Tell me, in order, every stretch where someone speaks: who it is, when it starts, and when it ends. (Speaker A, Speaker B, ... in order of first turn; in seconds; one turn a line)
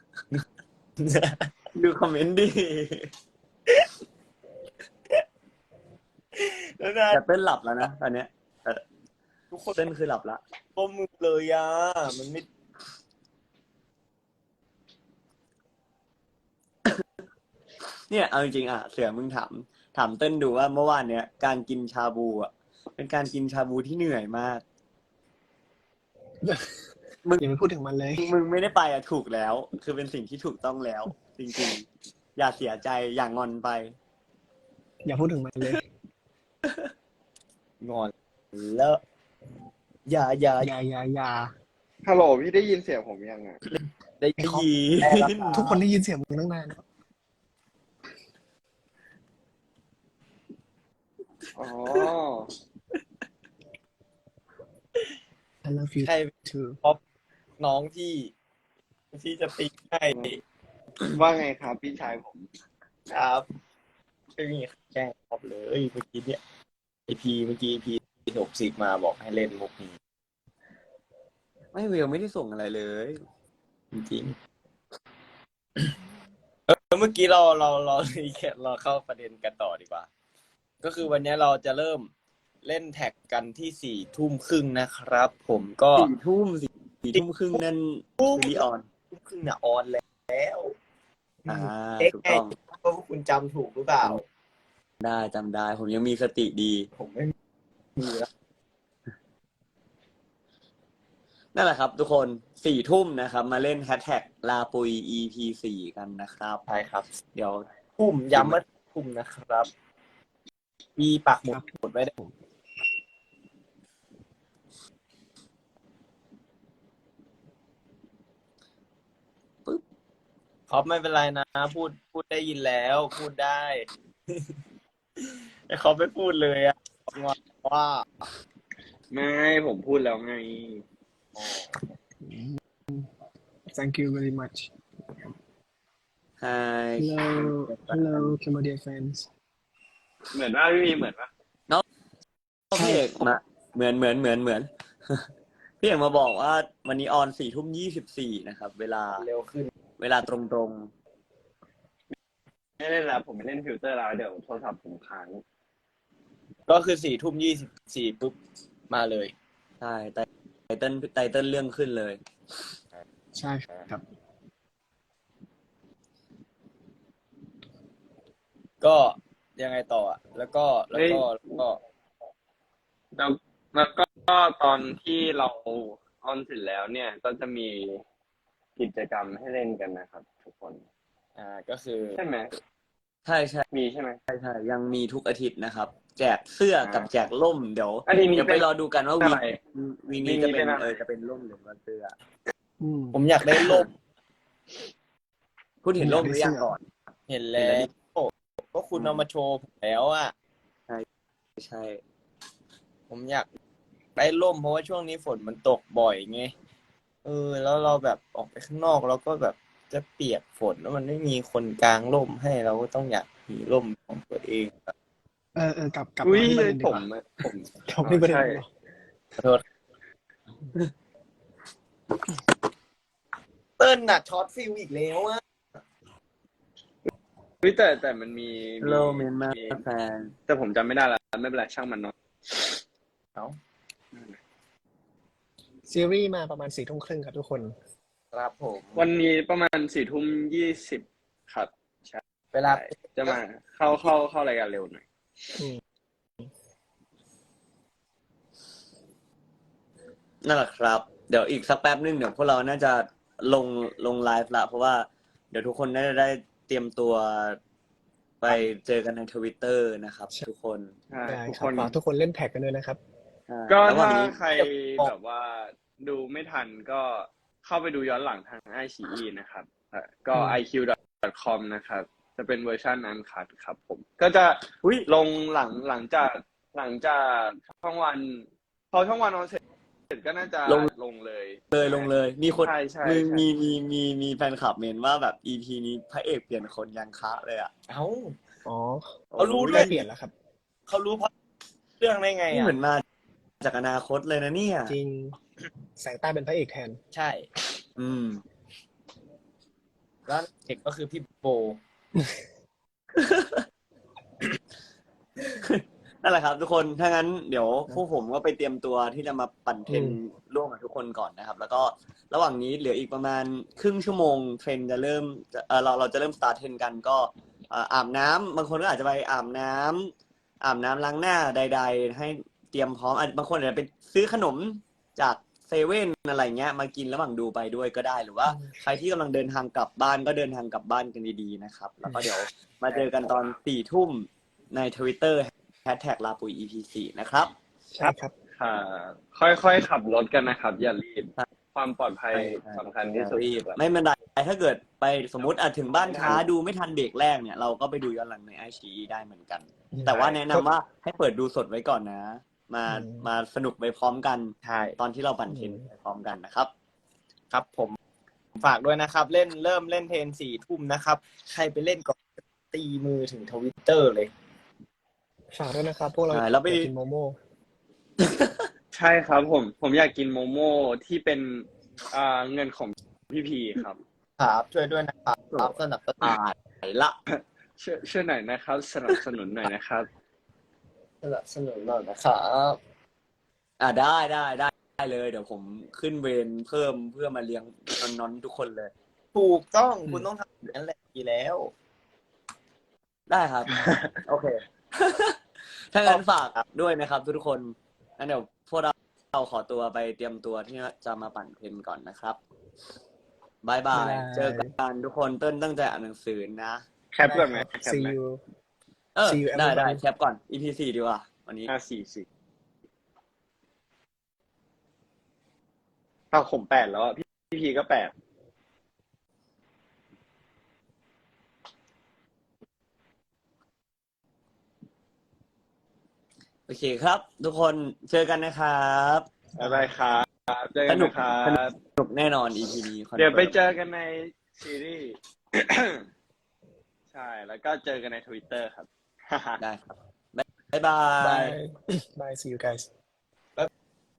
Speaker A: 1.0-1.5
Speaker B: 1.7-3.1
Speaker A: 6.3-7.2
Speaker B: 7.1-8.8
Speaker A: 9.5-9.8
Speaker B: 9.8-10.4
Speaker A: 10.8-12.5
Speaker B: 18.1-24.6
Speaker C: 26.4-26.8
Speaker C: 27.4-28.3
Speaker B: 28.2-34.0
Speaker C: 35.0-35.9
Speaker A: 37.8-39.0
Speaker A: 40.1-40.7
Speaker C: 40.6-41.5
Speaker D: 42.0-43.6
Speaker A: 44.2-45.8
Speaker B: 44.4-45.8
Speaker C: 45.5-46.8
Speaker D: 51.6-52.5
Speaker C: 55.6-56.8
Speaker A: 56.0-57.0
Speaker A: 57.6-58.3
Speaker A: 59.1-60.4
Speaker D: 61.1-62.5
Speaker A: 63.1-63.5
Speaker A: 64.3-66.4
Speaker A: 67.1-70.0
Speaker B: 71.7-73.2
Speaker A: 73.9-74.3
Speaker A: 76.7-80.1
Speaker A: 80.8-82.1
Speaker A: 82.6-86.1
Speaker B: 86.0-88.8
Speaker A: 87.2-87.6
Speaker A: 88.2-90.8
Speaker A: 91.5-94.2
Speaker B: 91.5-92.5
Speaker B: 95.0-96.9
Speaker A: 97.0-97.3
Speaker A: 98.0-98.3
Speaker B: 101.5-106.6
Speaker A: 106.7-107.0
Speaker B: 107.3-107.7
Speaker A: 108.0-109.7
Speaker A: 111.0-112.1
Speaker A: 120.7-124.5
Speaker A: 125.2-128.1
Speaker D: 129.1-130.8
Speaker A: 131.3-131.7
Speaker C: 132.2-133.1
Speaker C: 133.7-134.7
Speaker B: 136.4-138.3
Speaker C: 137.0-139.3
Speaker D: 140.3-141.3
Speaker B: 142.7-145.3
Speaker B: 145.8-149.2
Speaker A: 149.2-149.7
Speaker B: 150.0-150.9
Speaker D: 152.8-155.4
Speaker A: 156.7-158.4
Speaker A: 158.9-159.3
Speaker B: 159.8-162.2
Speaker C: 163.3-164.0
Speaker A: 168.8-171.8
Speaker D: 170.9-171.6
Speaker D: 173.2-178.0
Speaker D: 178.8-180.8
Speaker A: 181.4-182.2
Speaker D: 182.2-182.5
Speaker B: 183.3-183.7
Speaker D: 183.7-184.2
Speaker B: 184.3-192.2
Speaker D: 186.8-187.1
Speaker D: 188.1-188.7
Speaker D: 189.2-189.6
Speaker D: 190.2-191.0
Speaker C: 192.8-193.2
Speaker A: 193.1-193.9
Speaker B: 195.8-196.8
Speaker C: 196.0-196.7
Speaker A: 197.3-200.3
Speaker B: 197.6-197.9
Speaker B: 201.6-202.0
Speaker A: 203.1-203.5
Speaker A: 204.2-206.5
Speaker A: 207.2-214.9
Speaker C: 215.6-217.1
Speaker D: 216.2-218.6
Speaker C: 217.8-218.7
Speaker A: 223.8-225.4
Speaker D: 227.6-229.8
Speaker B: 228.8-230.3
Speaker D: 230.5-232.8
Speaker C: 235.9-237.7
Speaker A: 238.3-239.1
Speaker D: 238.9-245.0
Speaker A: 242.5-243.4
Speaker B: 250.4-257.6
Speaker B: 258.4-260.9
Speaker D: 261.1-261.9
Speaker C: 261.2-263.0
Speaker B: 263.5-264.4
Speaker D: 263.7-282.0
Speaker C: 270.4-270.6
Speaker B: 281.7-287.7
Speaker D: 282.6-283.5
Speaker A: 287.9-288.4
Speaker C: 288.7-290.3
Speaker B: 289.3-290.0
Speaker A: 289.4-290.0
Speaker A: 290.9-291.3
Speaker A: 292.0-292.8
Speaker B: 292.5-293.0
Speaker B: 293.6-295.0
Speaker C: 294.9-295.4
Speaker C: 296.0-297.0
Speaker A: 297.1-297.5
Speaker B: 298.0-298.4
Speaker A: 300.3-301.8
Speaker B: 303.1-303.7
Speaker B: 305.6-337.5
Speaker C: 309.9-310.2
Speaker C: 332.1-332.3
Speaker C: 337.9-338.3
Speaker D: 338.0-343.8
Speaker B: 342.3-356.7
Speaker D: 346.1-346.4
Speaker C: 349.9-350.6
Speaker C: 352.9-353.2
Speaker A: 354.6-355.0
Speaker C: 355.5-355.9
Speaker A: 357.5-358.0
Speaker A: 358.6-364.3
Speaker C: 365.5-367.4
Speaker B: 366.3-366.9
Speaker B: 368.2-368.7
Speaker D: 368.9-374.0
Speaker A: 374.4-376.3
Speaker B: 375.5-377.2
Speaker D: 377.3-380.1
Speaker A: 381.2-382.8
Speaker B: 383.8-388.9
Speaker A: 389.3-391.7
Speaker B: 393.3-393.7
Speaker D: 393.8-394.1
Speaker B: 394.2-402.4
Speaker A: 396.1-396.6
Speaker B: 403.6-406.8
Speaker C: 403.9-404.7
Speaker D: 407.1-408.1
Speaker C: 407.3-408.4
Speaker B: 409.2-411.7
Speaker C: 409.3-410.0
Speaker D: 411.7-412.3
Speaker D: 416.3-418.1
Speaker B: 426.7-429.3
Speaker D: 429.6-431.8
Speaker C: 429.6-429.9
Speaker B: 430.9-433.6
Speaker D: 433.2-436.1
Speaker D: 437.1-439.6
Speaker B: 439.6-441.6
Speaker C: 441.2-442.9